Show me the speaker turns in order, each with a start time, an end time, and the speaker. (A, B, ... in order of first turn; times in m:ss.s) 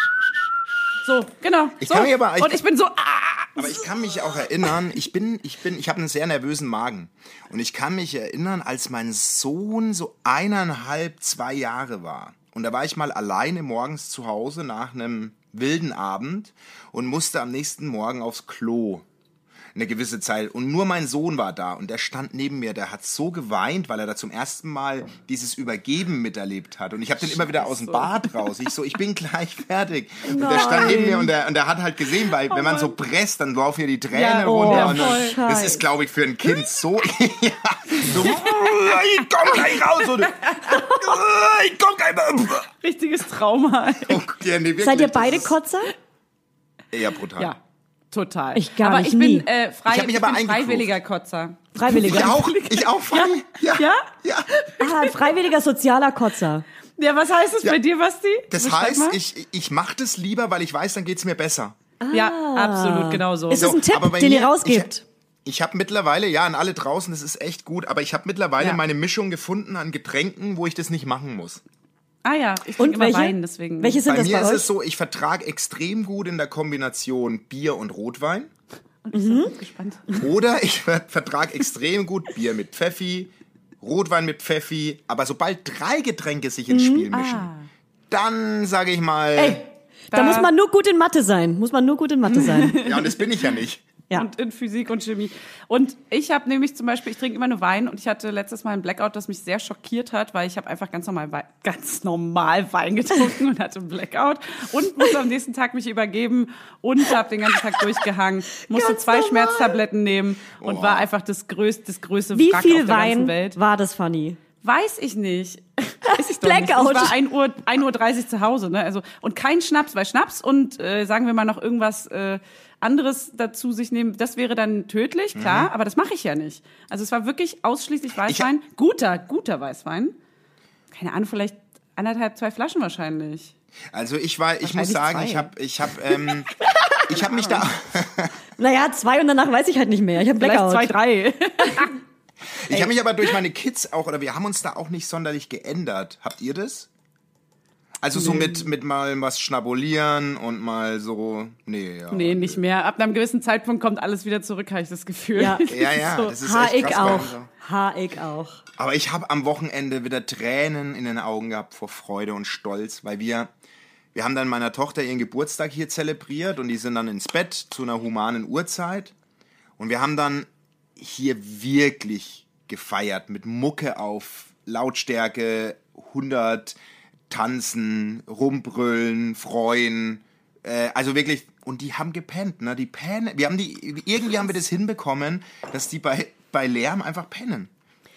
0:01.0-0:03.8 A
0:01.8-0:02.6 B
0:03.6-0:19.0 B
0:19.7-0:42.7 B
0:27.2-0:28.3 A
0:30.2-0:31.3 C
0:30.4-0:31.1 A
0:32.5-0:32.9 A
0:34.1-0:35.4 A
0:34.4-0:35.8 C
0:38.0-0:38.6 A
0:39.7-0:40.6 A
0:42.8-0:44.2 A
0:44.0-0:45.5 B
0:44.8-0:45.9 C
0:46.9-0:47.5 B
0:48.1-0:54.1 A
0:48.5-0:49.4 C
0:49.9-0:50.9 B
0:51.7-0:52.3 C
0:51.8-0:54.5 B
0:54.6-0:55.3 A
0:54.8-0:56.6 C
0:57.0-0:59.2 A
0:58.5-1:01.8 B
1:02.0-1:05.0 C
1:02.1-1:03.7 A
1:03.5-1:04.9 B
1:05.4-1:11.6 B
1:12.2-1:14.0 A
1:12.8-1:14.7 C
1:14.1-1:18.5 B
1:19.0-1:20.2 A
1:19.1-1:19.5 C
1:20.1-1:23.3 B
1:23.8-1:27.5 B
1:26.7-1:27.1 C
1:27.1-1:27.7 A
1:28.1-1:29.6 B
1:29.4-1:32.8 C
1:30.1-1:30.5 A
1:32.3-1:33.2 A
1:32.8-1:33.8 B
1:34.1-1:53.6 A
1:48.7-1:49.7 C
1:50.6-1:51.1 B
1:52.3-1:54.4 C
1:54.6-2:10.1 A
1:56.0-1:57.1 C
2:05.3-2:05.7 B
2:08.2-2:08.5 B
2:10.9-2:13.5 A
2:13.9-2:16.5 B
2:14.6-2:15.5 A
2:17.1-2:18.3 B
2:17.1-2:17.6 A
2:18.6-2:20.9 C
2:20.4-2:22.0 A
2:22.6-2:26.9 B
2:28.0-2:32.6 B
2:32.1-2:36.3 A
2:35.4-2:35.6 C
2:35.7-2:37.5 B
2:36.3-2:38.6 C
2:38.8-2:43.5 B
2:44.1-2:49.1 B
2:49.8-2:56.8 B
2:57.3-3:07.7 B